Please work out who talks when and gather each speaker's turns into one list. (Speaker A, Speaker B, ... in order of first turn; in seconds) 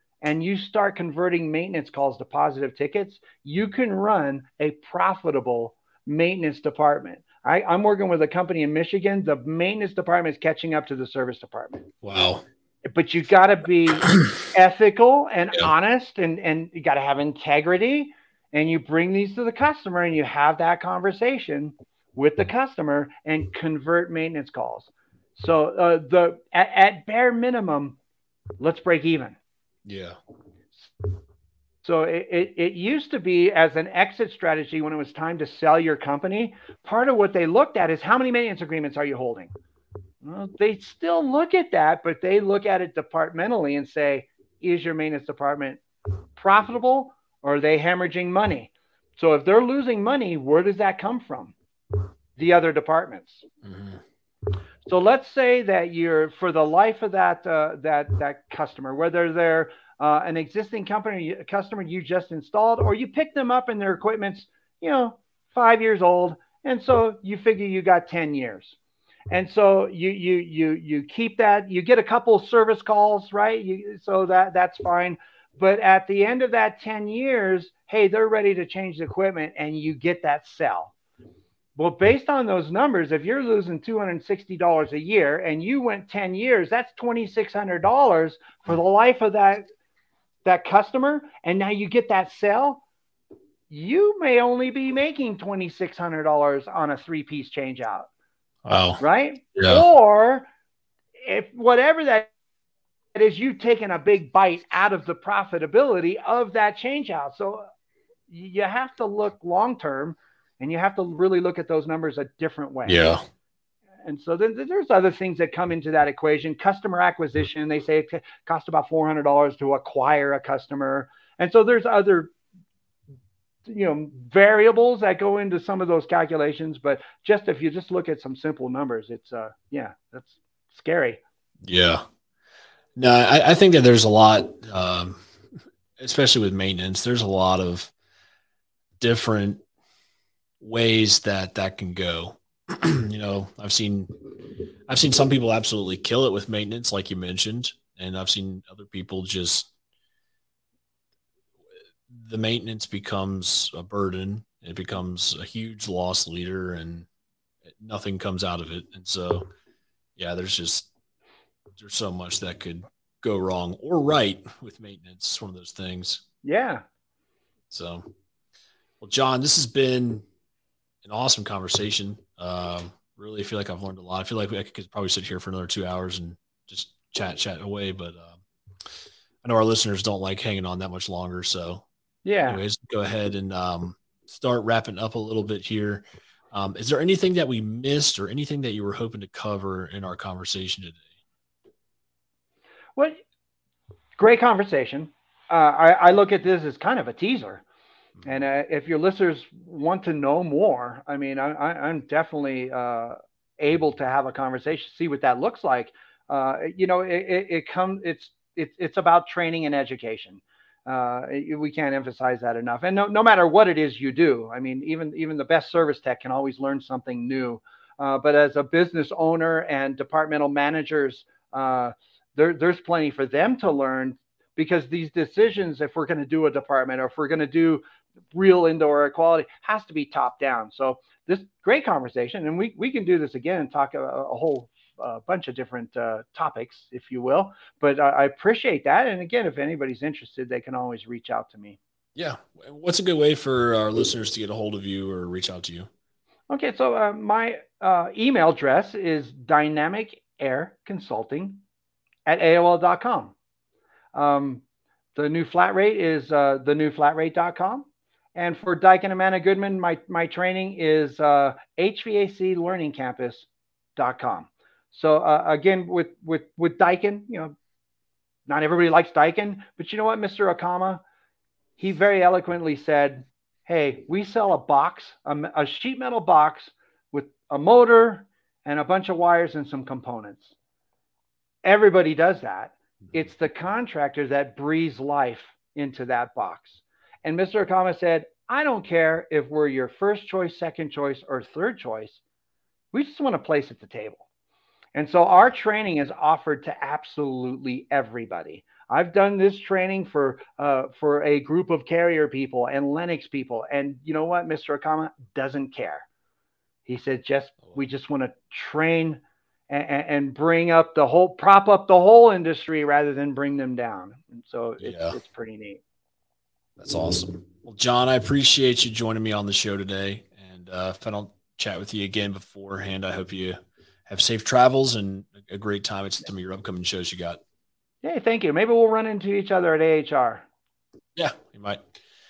Speaker A: 0.2-11.9, 12.9-28.0, 28.6-29.4, 31.8-39.5, 40.2-45.8, 46.4-51.5, 52.4-53.5, 54.9-68.8, 69.3-80.9, 81.8-89.7, 90.4-92.8, 93.7-98.1, 99.0-100.5, 101.2-102.3, 103.1-107.7, 108.3-113.2, 114.0-122.3, 123.7-131.2, 166.4-166.8, 182.2-182.6, 194.2-197.6, 198.2-227.8, 228.3-241.8, 246.5-251.6, 252.2-253.3, 254.1-254.6, 255.1-267.5, 268.5-271.0, 271.8-280.5, 281.6-292.2, 292.9-294.2, 294.9-306.1, 306.9-315.8, 328.0-330.4
Speaker B: 12.0-12.4, 29.8-30.2, 53.6-54.0, 98.6-99.0, 99.5-99.9, 112.9-113.2, 131.6-132.0, 132.9-135.2, 136.0-137.9, 139.0-139.6, 140.6-144.1, 144.9-149.7, 152.1-157.1, 157.7-159.5, 160.2-160.9, 161.8-166.2, 167.7-168.1, 169.0-170.2, 171.0-178.4, 179.4-181.8, 182.5-191.0, 242.1-245.9, 314.8-315.1, 316.8-327.4, 331.1-331.8